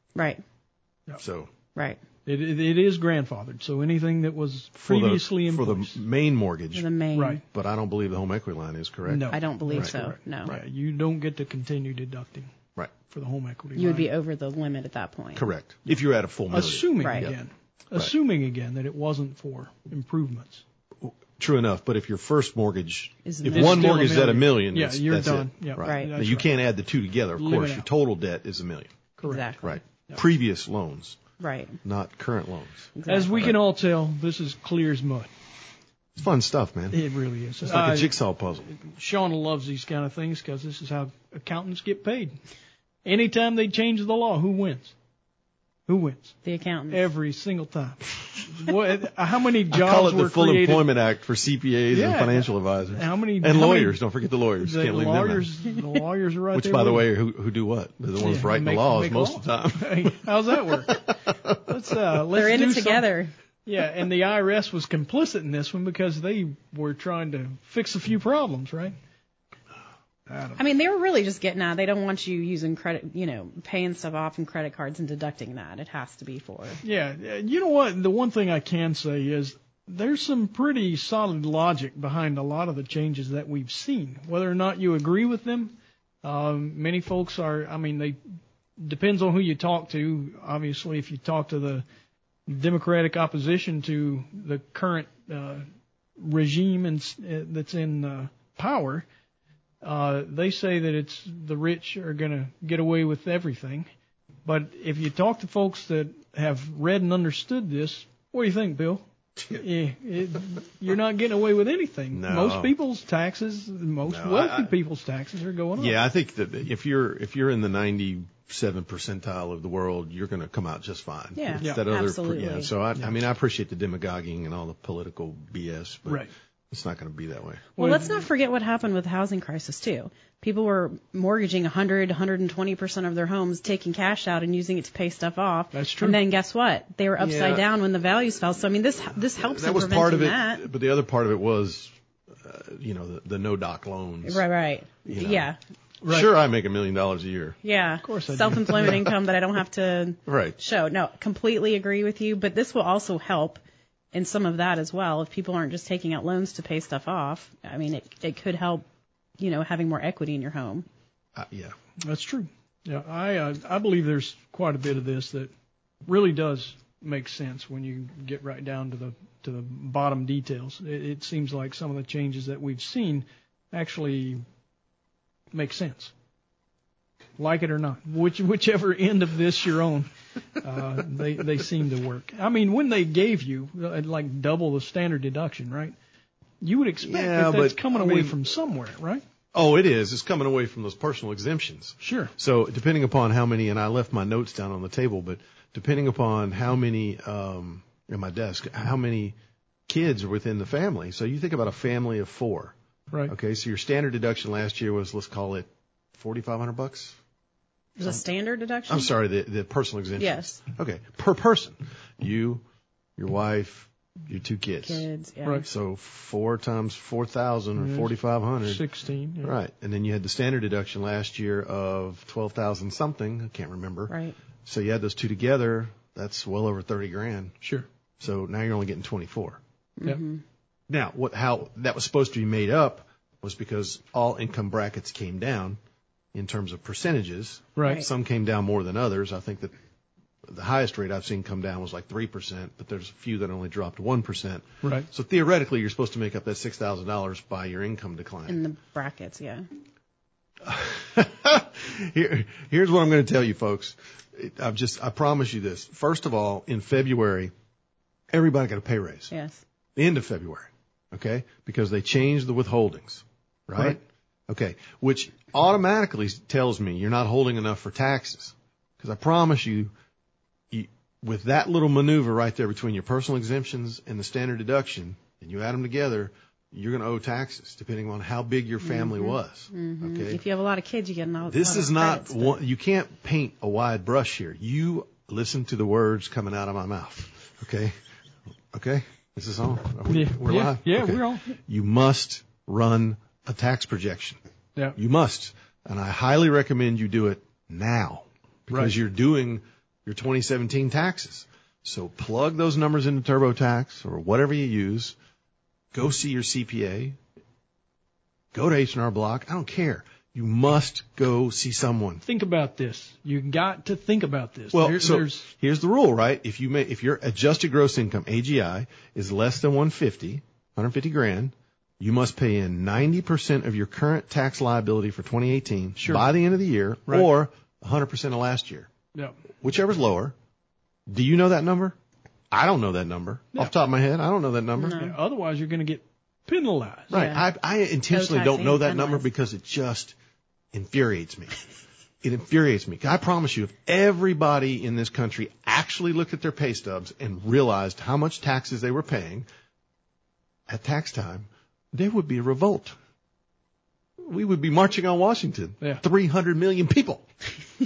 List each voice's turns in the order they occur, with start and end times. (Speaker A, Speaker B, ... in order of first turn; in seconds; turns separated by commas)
Speaker A: 0.1-0.4, Speaker B: 1.2-1.5, Speaker A: 1.7-2.0, Speaker C: 2.2-6.0, Speaker B: 4.8-6.9, Speaker A: 6.7-7.4, Speaker C: 7.1-7.4, Speaker B: 7.5-9.9, Speaker C: 9.1-12.5, Speaker A: 9.3-10.5, Speaker C: 13.1-14.1, Speaker A: 13.8-15.4, Speaker B: 15.3-17.3, Speaker C: 16.5-20.6, Speaker A: 17.0-17.3, Speaker B: 21.0-28.9, Speaker A: 23.2-24.2, Speaker C: 23.5-26.5, Speaker A: 25.8-26.1, Speaker C: 27.4-27.9, Speaker C: 29.2-29.5, Speaker A: 29.3-29.8, Speaker B: 29.6-31.2, Speaker A: 31.4-31.8, Speaker B: 31.8-33.5, Speaker A: 33.0-33.5, Speaker C: 33.1-35.3, Speaker B: 36.1-37.0, Speaker C: 36.9-38.1, Speaker B: 37.6-38.7, Speaker C: 38.8-42.4, Speaker C: 43.0-44.9, Speaker C: 45.9-46.4, Speaker A: 46.4-47.0, Speaker C: 46.9-50.9, Speaker B: 49.7-55.5, Speaker C: 51.9-54.0, Speaker C: 54.6-57.1, Speaker B: 56.5-60.2, Speaker C: 58.2-61.1, Speaker B: 60.9-61.6, Speaker C: 61.6-63.1, Speaker A: 62.3-63.3, Speaker C: 63.6-68.9, Speaker C: 70.3-70.6, Speaker A: 70.6-76.8, Speaker C: 76.8-88.2, Speaker C: 88.8-91.8, Speaker C: 92.5-95.7, Speaker C: 96.2-99.0, Speaker C: 99.8-103.9, Speaker C: 104.4-116.0, Speaker B: 112.1-112.7, Speaker B: 114.0-114.7, Speaker B: 115.8-127.7, Speaker A: 121.3-122.7, Speaker C: 127.8-128.2, Speaker A: 127.8-140.6, Speaker C: 135.7-136.2, Speaker B: 137.2-137.7, Speaker B: 139.3-144.4, Speaker A: 144.2-145.6, Speaker B: 145.1-145.5, Speaker C: 146.0-146.3, Speaker B: 146.1-147.6, Speaker A: 147.6-153.6, Speaker C: 148.0-149.0, Speaker B: 150.3-150.6, Speaker A: 154.1-158.8, Speaker A: 159.4-160.9, Speaker B: 161.3-161.7, Speaker C: 162.0-165.5, Speaker C: 166.1-174.4, Speaker C: 175.5-176.1, Speaker C: 177.4-180.1, Speaker C: 180.6-185.9, Speaker C: 186.6-189.2, Speaker B: 187.0-188.4, Speaker B: 189.5-199.3, Speaker C: 192.0-192.3, Speaker B: 199.9-202.7, Speaker B: 203.3-207.2, Speaker A: 208.0-209.1, Speaker B: 208.9-212.6, Speaker A: 210.2-210.6, Speaker B: 213.2-215.1, Speaker A: 214.8-215.7, Speaker B: 215.6-218.8, Speaker C: 217.8-219.5, Speaker B: 219.4-224.1, Speaker A: 224.1-224.3, Speaker B: 224.6-227.6, Speaker B: 228.2-229.6, Speaker A: 230.0-230.4, Speaker B: 230.9-235.8, Speaker B: 236.3-239.7, Speaker C: 237.8-238.0, Speaker B: 240.4-248.6, Speaker A: 248.5-249.7, Speaker B: 250.6-257.5, Speaker B: 258.3-259.3, Speaker A: 259.3-259.6, Speaker B: 259.9-269.9, Speaker B: 270.7-280.4, Speaker A: 278.8-282.6, Speaker B: 281.5-287.9, Speaker B: 288.7-294.4, Speaker C: 290.1-291.4, Speaker B: 294.9-305.1, Speaker C: 298.7-298.9, Speaker B: 305.9-307.2, Speaker B: 308.5-312.2, Speaker C: 312.2-315.5, Speaker B: 314.7-328.9, Speaker C: 326.0-326.3, Speaker B: 329.6-330.3, Speaker B: 331.1-331.9, Speaker B: 332.5-335.0, Speaker A: 334.8-335.1, Speaker C: 334.9-337.1, Speaker B: 337.1-340.1, Speaker A: 337.1-337.4, Speaker A: 338.1-339.2, Speaker B: 340.7-341.6, Speaker B: 342.2-349.5, Speaker B: 350.7-352.9, Speaker B: 354.2-357.2